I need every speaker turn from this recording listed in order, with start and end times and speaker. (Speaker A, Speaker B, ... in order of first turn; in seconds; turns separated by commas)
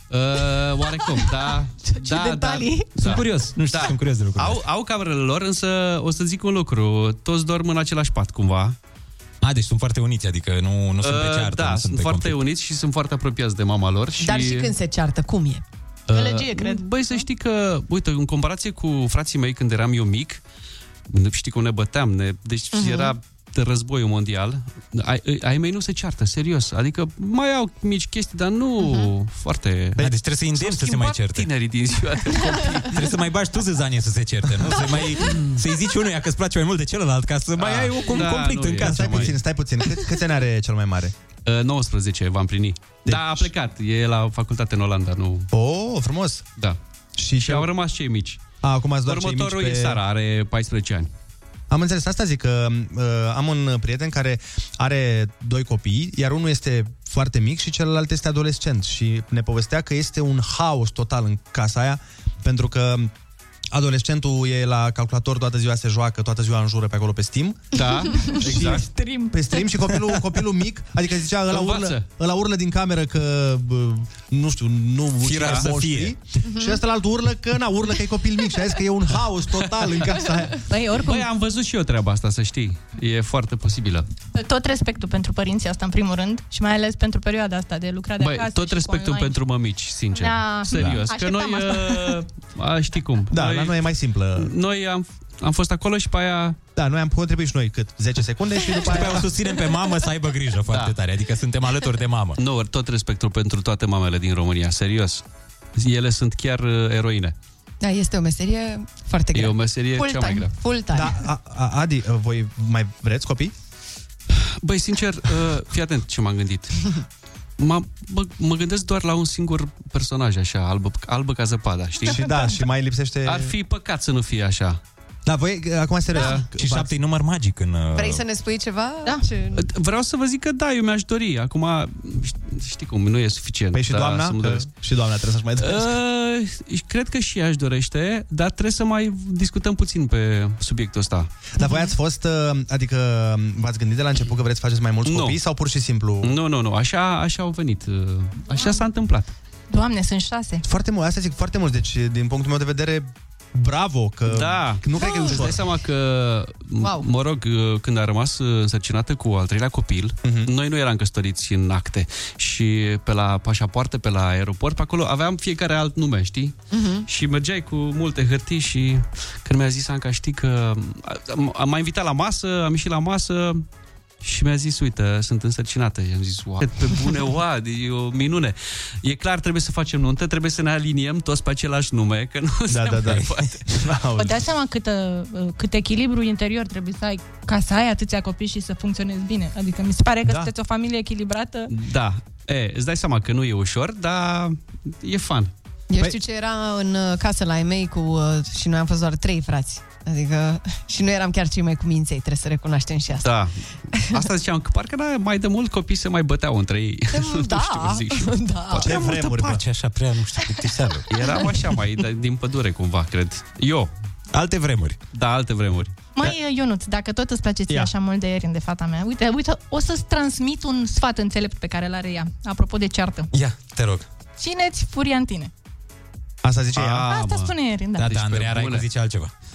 Speaker A: 0.1-8.8, Speaker B: 1.9-2.9, Speaker C: 2.1-2.5, Speaker D: 3.0-4.6, Speaker D: 9.4-12.4, Speaker A: 11.0-14.7, Speaker C: 14.2-15.6, Speaker A: 16.1-20.4, Speaker B: 16.1-17.2, Speaker A: 21.1-33.0, Speaker C: 22.7-23.1, Speaker C: 28.8-29.1, Speaker D: 30.0-31.5, Speaker D: 32.9-39.4, Speaker A: 35.2-35.6, Speaker A: 37.6-39.4, Speaker E: 38.0-41.1, Speaker A: 41.5-45.5, Speaker E: 43.0-43.5, Speaker E: 45.5-46.5, Speaker E: 47.2-47.7, Speaker A: 47.4-48.5, Speaker E: 48.6-50.0, Speaker A: 49.0-51.1, Speaker E: 51.7-63.1, Speaker E: 63.7-67.7, Speaker A: 67.7-68.8, Speaker B: 68.0-69.3, Speaker E: 68.4-80.6, Speaker A: 71.5-72.0, Speaker D: 75.2-76.1, Speaker A: 75.4-75.7, Speaker C: 76.4-76.8, Speaker A: 79.6-80.0, Speaker B: 80.7-81.3, Speaker A: 80.9-84.0, Speaker B: 84.3-89.4, Speaker A: 88.2-93.8, Speaker B: 90.1-92.2, Speaker D: 90.7-91.0, Speaker E: 93.3-94.5, Speaker A: 94.4-96.6, Speaker E: 96.7-99.3, Speaker D: 98.9-102.4, Speaker A: 102.4-105.2, Speaker A: 105.7-107.3, Speaker C: 107.8-111.2, Speaker A: 109.3-110.5, Speaker E: 110.9-113.5, Speaker A: 114.6-116.8, Speaker A: 117.6-122.3, Speaker B: 122.0-122.6, Speaker E: 122.0-123.5, Speaker A: 123.2-124.8, Speaker E: 125.3-126.9, Speaker A: 126.1-126.5, Speaker D: 126.5-128.2, Speaker C: 128.0-129.7, Speaker A: 129.5-134.7, Speaker E: 133.7-135.9, Speaker A: 135.6-141.3, Speaker E: 141.6-146.3, Speaker A: 145.1-145.4, Speaker A: 146.2-149.3, Speaker B: 148.5-148.9, Speaker B: 149.7-150.6, Speaker E: 150.6-155.6, Speaker A: 154.3-173.6, Speaker C: 155.2-155.5, Speaker C: 156.8-157.1, Speaker E: 160.2-160.5, Speaker C: 166.7-167.1, Speaker A: 174.2-183.6, Speaker E: 182.7-184.4, Speaker B: 184.2-191.7, Speaker E: 190.2-190.5, Speaker A: 191.7-195.5, Speaker C: 195.9-203.4, Speaker A: 203.2-203.6, Speaker C: 203.9-204.3, Speaker A: 204.1-208.3, Speaker C: 207.1-209.6, Speaker D: 208.7-211.1, Speaker E: 208.7-209.6, Speaker A: 211.1-213.9, Speaker D: 214.3-215.0, Speaker A: 215.1-216.0, Speaker B: 216.1-223.3, Speaker D: 223.3-224.1, Speaker B: 224.4-225.5, Speaker E: 226.4-227.1, Speaker A: 226.7-228.8, Speaker B: 227.1-228.1, Speaker D: 228.0-229.3